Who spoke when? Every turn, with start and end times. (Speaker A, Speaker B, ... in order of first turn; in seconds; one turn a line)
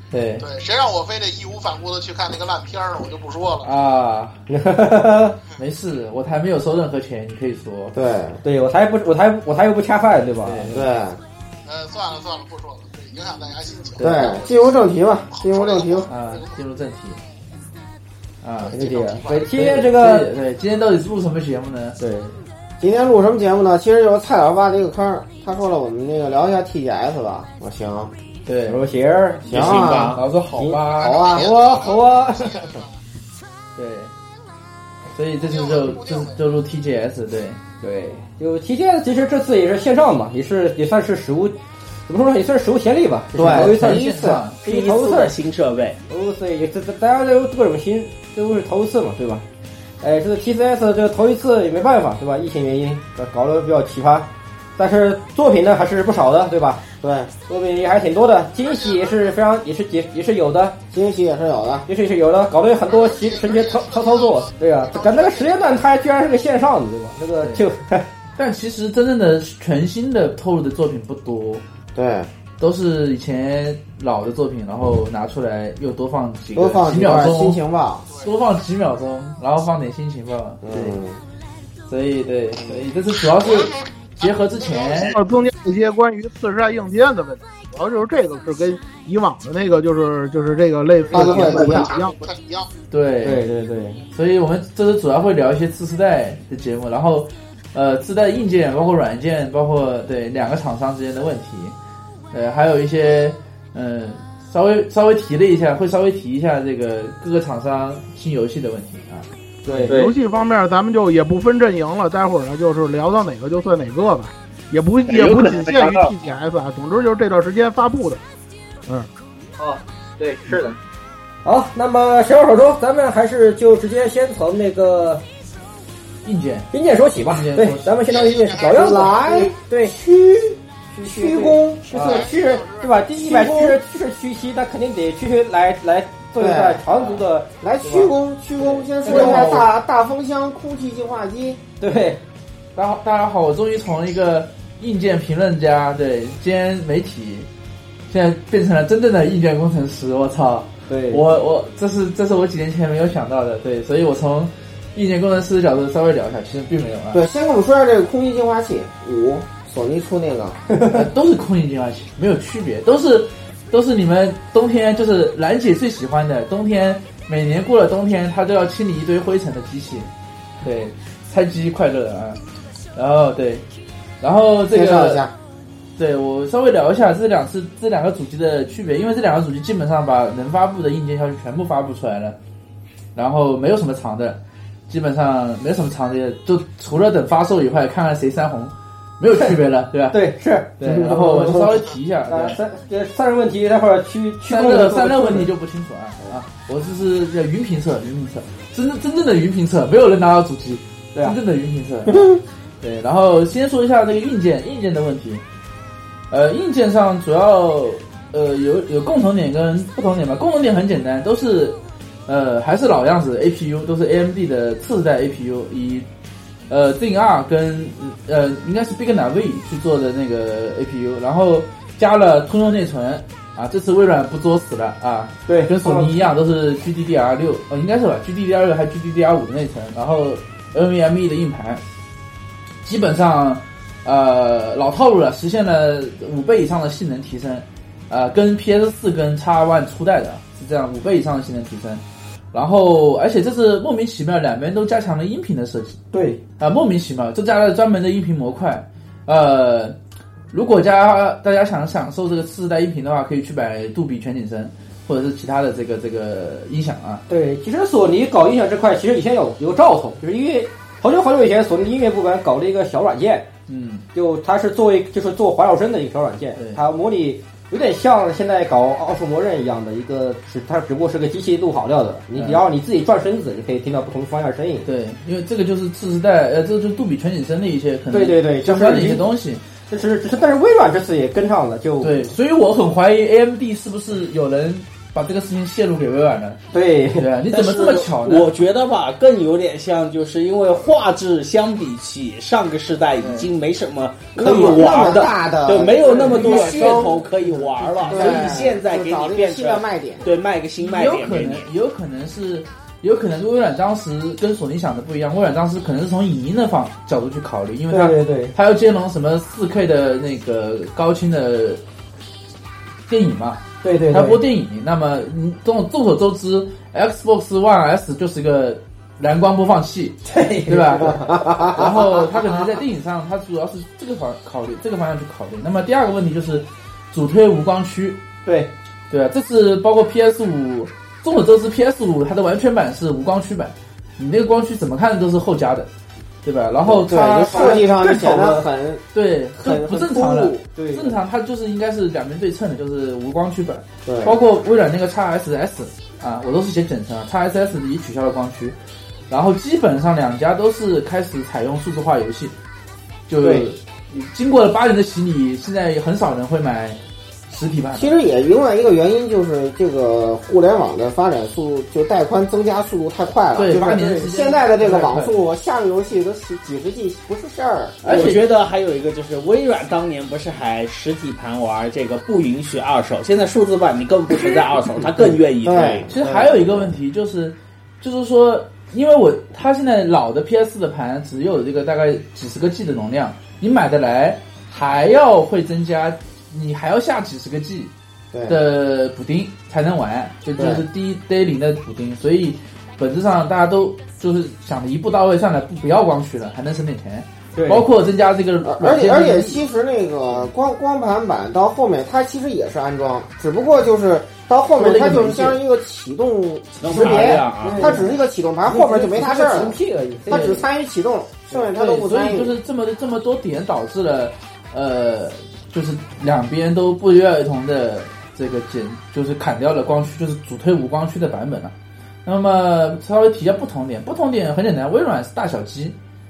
Speaker A: 0.1-0.4
Speaker B: 0.4-3.7
Speaker A: 3.6-4.4
Speaker C: 4.5-5.3
Speaker A: 5.6-7.9
Speaker D: 7.9-8.4
Speaker C: 8.4-10.8
Speaker A: 10.4-10.8
Speaker D: 10.7-11.2
Speaker B: 11.7-14.8
Speaker D: 14.0-16.1
Speaker B: 15.3-16.5
Speaker A: 16.1-17.2
Speaker A: 18.4-18.8
Speaker B: 18.6-19.5
Speaker C: 18.7-20.3
Speaker A: 19.5-22.0
Speaker C: 22.0-22.4
Speaker D: 22.8-28.1
Speaker A: 28.4-28.8
Speaker C: 28.6-29.8
Speaker D: 29.4-30.2
Speaker E: 29.5-30.2
Speaker A: 30.1-31.2
Speaker C: 30.5-32.8
Speaker B: 31.0-32.9
Speaker D: 31.0-31.6
Speaker A: 33.8-34.1
Speaker A: 35.1-37.6
Speaker B: 35.5-36.4
Speaker C: 37.8-41.5
Speaker C: 42.1-44.1
Speaker D: 43.4-44.4
Speaker A: 43.5-44.6
Speaker C: 44.6-45.3
Speaker E: 44.6-46.0
Speaker C: 46.1-49.4
Speaker C: 50.0-56.8
Speaker D: 57.0-57.3
Speaker C: 57.5-60.8
Speaker B: 58.6-59.1
Speaker D: 60.9-61.9
Speaker C: 61.9-68.1
Speaker B: 62.9-65.8
Speaker A: 68.3-71.6
Speaker D: 71.9-72.3
Speaker A: 72.6-77.6
Speaker D: 76.5-78.1
Speaker A: 78.2-81.0
Speaker D: 80.6-81.2
Speaker A: 81.9-85.2
Speaker B: 83.5-83.8
Speaker B: 84.6-85.2
Speaker F: 85.0-92.2
Speaker D: 91.1-92.0
Speaker B: 91.1-92.7
Speaker A: 92.9-93.4
Speaker C: 93.2-94.0
Speaker A: 94.1-101.7
Speaker A: 102.3-109.3
Speaker C: 109.7-110.0
Speaker F: 109.9-118.2
Speaker E: 115.1-116.1
Speaker C: 121.4-125.2
Speaker A: 126.2-126.7
Speaker C: 126.7-130.0
Speaker A: 127.3-127.9
Speaker B: 128.1-128.9
Speaker D: 128.6-132.3
Speaker C: 130.9-139.7
Speaker B: 131.9-133.0
Speaker D: 133.2-133.8
Speaker D: 136.4-136.9
Speaker A: 136.9-137.2
Speaker D: 137.6-141.6
Speaker A: 139.0-139.5
Speaker C: 141.8-142.2
Speaker A: 142.8-147.5
Speaker A: 148.1-157.2
Speaker C: 150.9-151.2
Speaker D: 157.1-160.6
Speaker C: 160.7-161.0
Speaker A: 160.9-170.1
Speaker A: 170.6-172.4
Speaker A: 172.9-173.7
Speaker A: 174.2-175.2
Speaker D: 174.7-175.3
Speaker A: 176.0-182.4
Speaker A: 183.1-192.6
Speaker C: 190.1-191.6
Speaker D: 190.9-191.5
Speaker C: 192.3-195.5
Speaker A: 194.4-202.3
Speaker A: 202.8-205.4
Speaker A: 206.3-216.1
Speaker A: 216.7-231.8
Speaker C: 225.5-226.2
Speaker A: 232.8-246.0
Speaker C: 246.1-246.4
Speaker A: 246.6-250.0
Speaker A: 250.5-257.2
Speaker C: 257.3-263.5
Speaker A: 263.7-264.1
Speaker C: 264.1-274.9
Speaker A: 266.6-266.8
Speaker A: 272.3-272.6
Speaker A: 274.8-279.6
Speaker C: 278.1-279.3
Speaker C: 279.9-282.3
Speaker A: 282.0-286.6
Speaker C: 286.7-287.3
Speaker A: 287.2-288.5
Speaker E: 287.5-301.7
Speaker A: 293.2-293.5
Speaker D: 294.4-297.2
Speaker C: 294.7-295.3
Speaker A: 296.0-298.5
Speaker D: 298.0-300.3
Speaker A: 300.8-311.8
Speaker C: 307.9-308.5
Speaker A: 313.1-328.2
Speaker C: 313.8-314.4
Speaker C: 320.2-321.2
Speaker D: 321.2-322.3
Speaker C: 328.4-328.7
Speaker A: 329.1-335.9
Speaker A: 336.4-337.8
Speaker D: 336.8-339.0
Speaker C: 337.5-338.6
Speaker A: 339.1-348.8
Speaker D: 339.6-340.6
Speaker C: 340.7-341.1
Speaker D: 344.0-344.4
Speaker A: 349.3-352.5
Speaker A: 353.3-357.0
Speaker C: 353.4-353.7
Speaker A: 357.5-358.1
Speaker D: 357.9-368.0
Speaker A: 363.5-365.4
Speaker A: 368.0-368.4
Speaker E: 368.0-376.1
Speaker D: 375.6-376.9
Speaker A: 376.1-387.9
Speaker D: 388.3-388.6
Speaker A: 388.5-399.6
Speaker D: 390.6-390.8
Speaker C: 397.6-397.9
Speaker D: 398.6-412.5
Speaker C: 404.8-405.6
Speaker E: 406.8-407.9
Speaker A: 406.9-407.4
Speaker C: 407.6-408.1
Speaker C: 408.6-410.5
Speaker A: 410.3-410.6
Speaker A: 411.5-421.7
Speaker A: 422.2-425.9